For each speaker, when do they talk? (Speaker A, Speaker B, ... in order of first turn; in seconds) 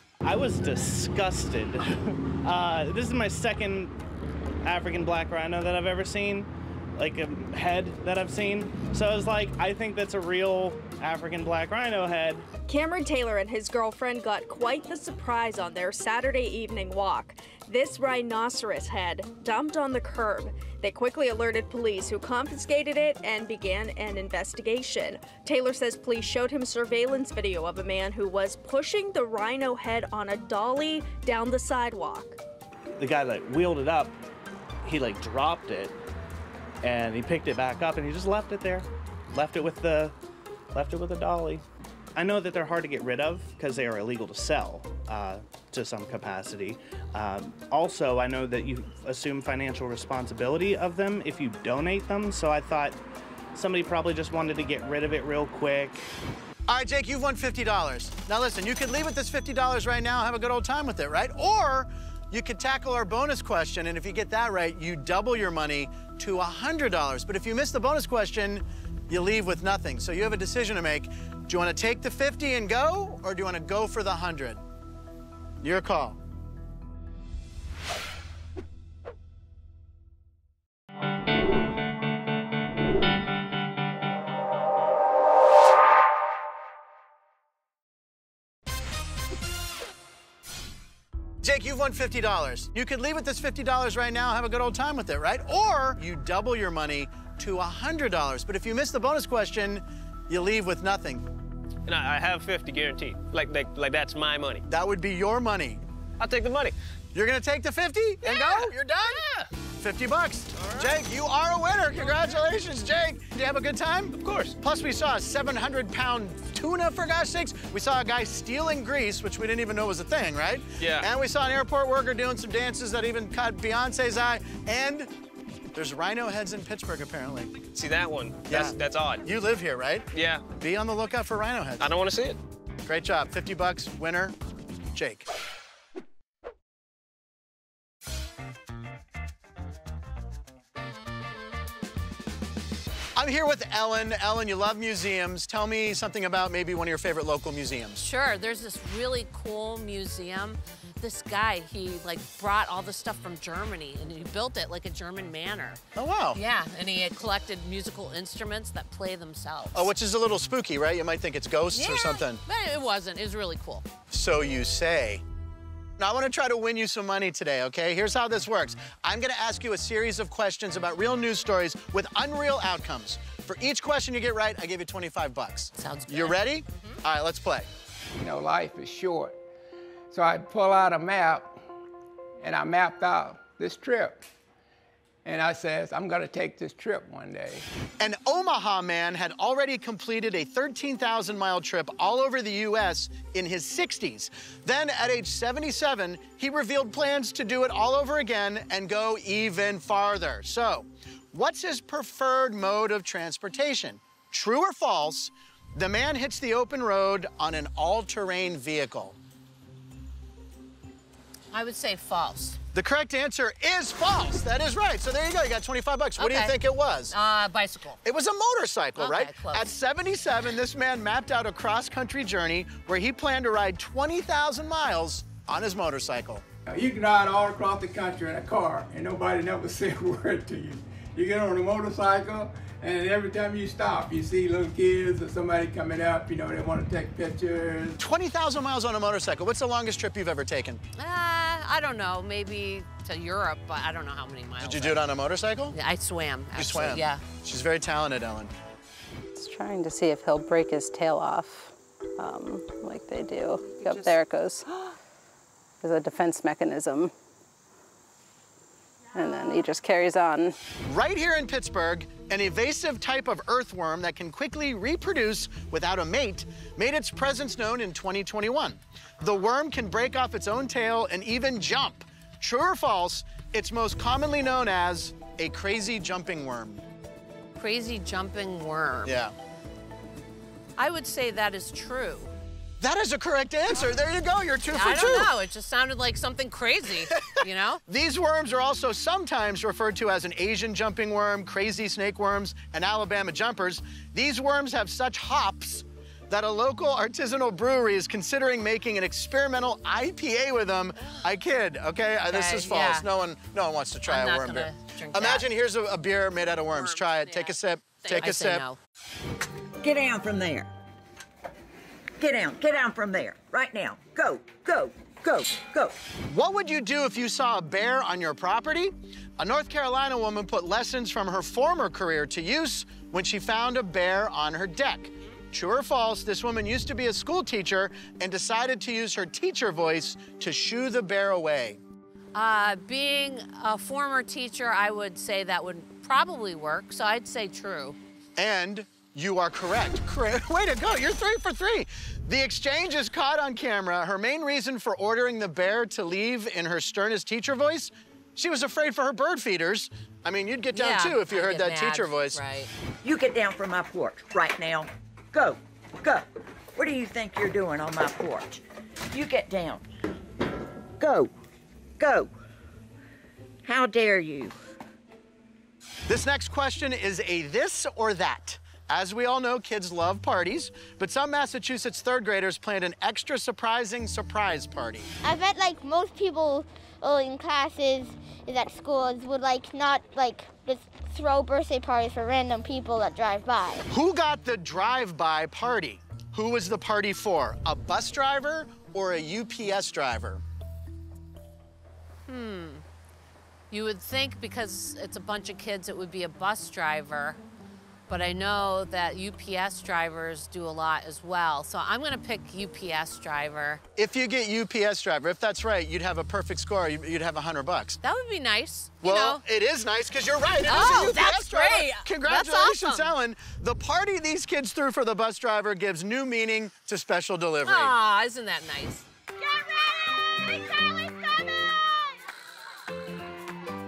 Speaker A: 0.2-4.0, 4.6-12.5, 33.0-34.2, 34.8-36.0, 36.8-40.1, 40.7-41.6, 42.1-53.0, 53.5-56.0
Speaker B: 12.7-32.4
Speaker C: 56.7-74.6, 75.6-76.2, 91.4-101.2, 104.7-105.8, 107.1-109.2, 109.8-125.1, 125.7-127.6, 128.5-131.9, 132.8-134.3, 134.9-135.2, 143.2-148.0, 155.9-156.4, 159.7-162.4, 164.1-165.2, 166.0-177.7, 188.0-209.2, 212.7-217.1, 218.0-226.4, 238.0-240.8, 244.6-245.7, 246.5-248.5, 260.9-276.8, 279.0-279.3, 282.8-285.3, 287.9-308.6, 316.3-331.8, 338.4-352.4, 366.1-375.1, 383.9-390.4, 403.9-408.0, 409.0-417.9
Speaker D: 101.8-104.6, 106.2-106.7, 108.2-109.5, 110.6-110.9, 114.2-114.5, 120.8-121.1, 127.7-129.2, 130.1-130.4, 131.8-132.4
Speaker E: 148.0-155.8, 156.3-159.9, 161.7-163.8, 175.8-177.0, 211.5-212.6, 216.2-216.6, 217.1-218.0, 219.0-219.7, 241.0-245.0, 245.7-247.2, 277.6-279.2, 280.8-282.3, 284.7-287.8, 302.3-303.1, 304.1-305.5, 306.7-308.8, 332.3-338.0, 350.7-352.7, 392.3-392.8, 393.7-397.4, 398.1-403.8, 408.0-409.4, 410.6-413.1, 417.6-419.0
Speaker F: 178.2-179.3, 180.1-181.5, 182.4-184.2, 185.2-187.6, 226.7-237.9
Speaker G: 249.3-254.9, 255.8-257.1, 259.1-260.6
Speaker H: 309.8-310.7, 312.2-315.9, 353.0-358.6, 359.1-359.9, 361.0-361.3, 362.0-362.3, 363.6-364.6
Speaker I: 375.2-383.8